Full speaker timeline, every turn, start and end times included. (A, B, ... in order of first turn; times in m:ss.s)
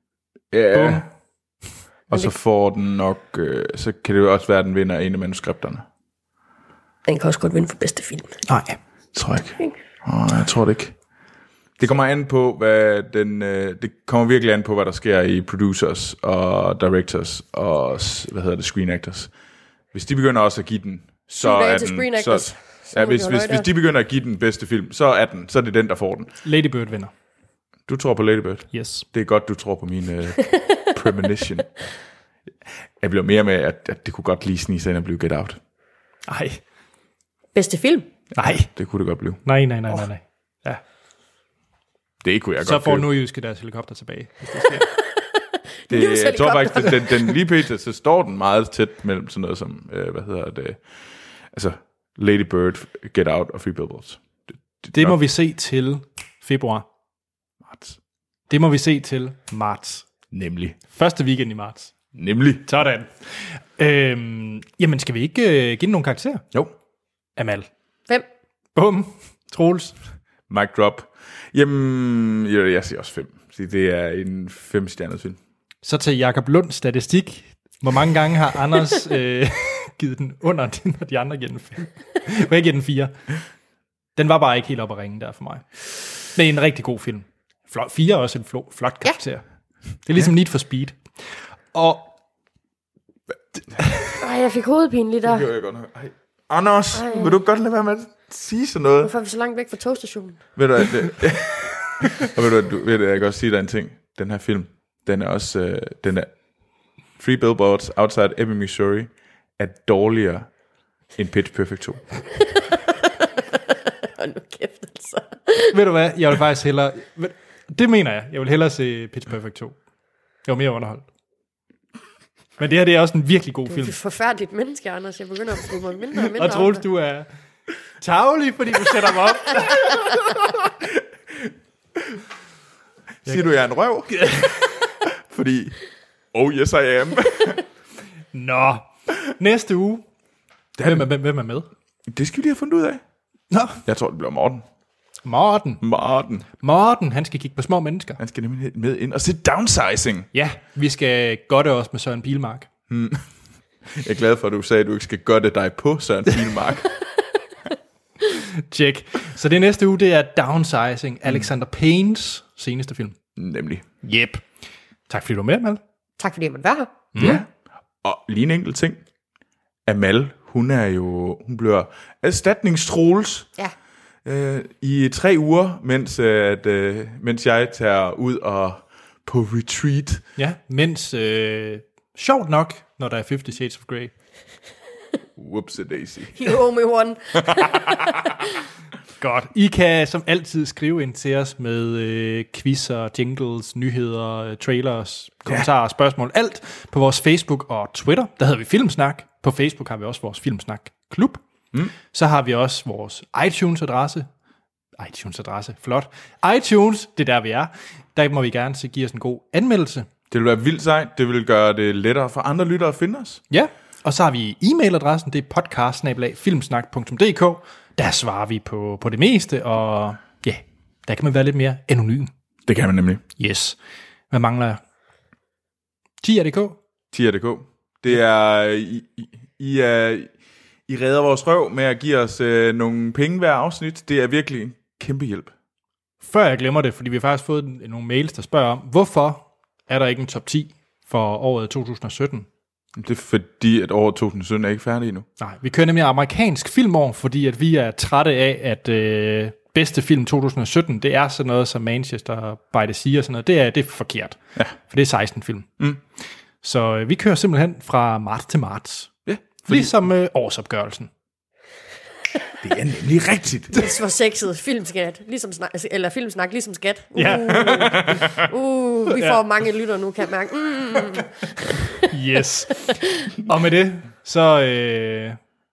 0:00.5-0:01.1 A
0:00.7-0:01.0 B
0:02.1-0:05.8 A
0:07.1-0:08.3 C
0:08.5-0:08.8 B
0:09.1-0:11.0 A
0:11.8-0:19.3 A
0:19.9-0:26.3 A
0:21.4-0:23.7 C
0:26.4-0:27.1 B
0:27.9-0:31.7 A
0:28.7-0:29.1 B
0:30.4-0:30.8 C
0:33.0-0:35.6 A
0:36.3-0:36.6 B
0:37.6-0:38.1 C
0:38.3-0:39.4 A
0:38.4-0:38.7 B
0:39.5-0:40.8 B
0:42.2-0:43.1 A
0:42.6-0:44.9 B
0:45.9-0:47.1 C
0:45.9-0:50.8 A
0:51.5-0:55.2 A
0:54.9-0:56.8 B
0:57.6-0:58.0 A
0:58.5-1:00.1 B
1:00.3-1:00.8 A
1:00.9-1:02.0 B
1:02.1-1:02.7 A
1:02.7-1:06.4 B
1:07.4-1:07.7 B
1:08.8-1:10.0 B
1:10.5-1:15.4 A
1:15.8-1:23.2 B
1:24.2-1:29.4 B
1:30.0-1:32.1 B
1:34.2-1:35.5 C
1:35.3-1:39.1 A
1:36.9-1:37.3 C
1:39.0-1:40.4 C
1:40.6-1:46.3 A
1:47.2-1:50.5 A
1:51.2-1:52.0 A
1:54.2-1:55.7 C
1:55.7-1:59.8 B
2:00.5-2:01.0 B
2:02.6-2:04.0 B
2:03.7-2:06.8 C
2:06.3-2:07.3 B
2:08.0-2:10.2 B
2:10.8-2:11.5 A
2:13.3-2:14.3 A
2:14.1-2:14.9 B
2:15.1-2:15.8 A
2:16.3-2:17.6 A
2:18.3-2:20.0 B
2:20.8-2:21.1 A
2:20.8-2:21.7 B
2:22.1-2:23.0 A
2:23.5-2:23.8 B
2:23.9-2:24.7 A
2:25.2-2:25.8 B
2:25.8-2:26.5 A
2:26.6-2:28.2 B
2:28.2-2:30.3 A
2:30.3-2:32.7 B
2:32.9-2:33.2 A
2:33.9-2:36.9 A
2:38.7-2:43.2 B
2:41.3-2:41.5 A
2:43.4-2:43.8 A
2:44.0-2:44.4 B
2:45.1-2:45.8 B
2:46.2-2:46.9 C
2:47.2-2:47.4 B
2:47.2-2:47.5 A
2:48.0-2:49.0 A
2:49.9-2:53.5 A
2:54.2-3:00.2 A
3:00.4-3:04.1 B
3:05.4-3:06.5 A
3:06.4-3:08.0 C
3:07.6-3:08.0 A
3:09.2-3:21.4 B
3:22.1-3:24.3 B
3:25.0-3:30.1 B
3:30.3-3:33.4 A
3:33.5-3:42.3 B
3:42.7-3:43.2 A
3:43.4-3:43.8 B
3:44.3-3:44.8 B
3:46.2-3:46.8 B
3:47.1-3:50.3 A
3:50.9-3:55.5 A
3:56.2-4:02.5 B
4:03.0-4:05.3 A
4:05.4-4:15.7 B
4:16.6-4:19.1 B
4:19.3-4:19.9 A
4:19.6-4:21.1 B
4:22.6-4:23.8 A
4:23.7-4:31.3 C
4:27.2-4:28.2 B
4:29.1-4:29.4 B
4:32.0-4:35.4 B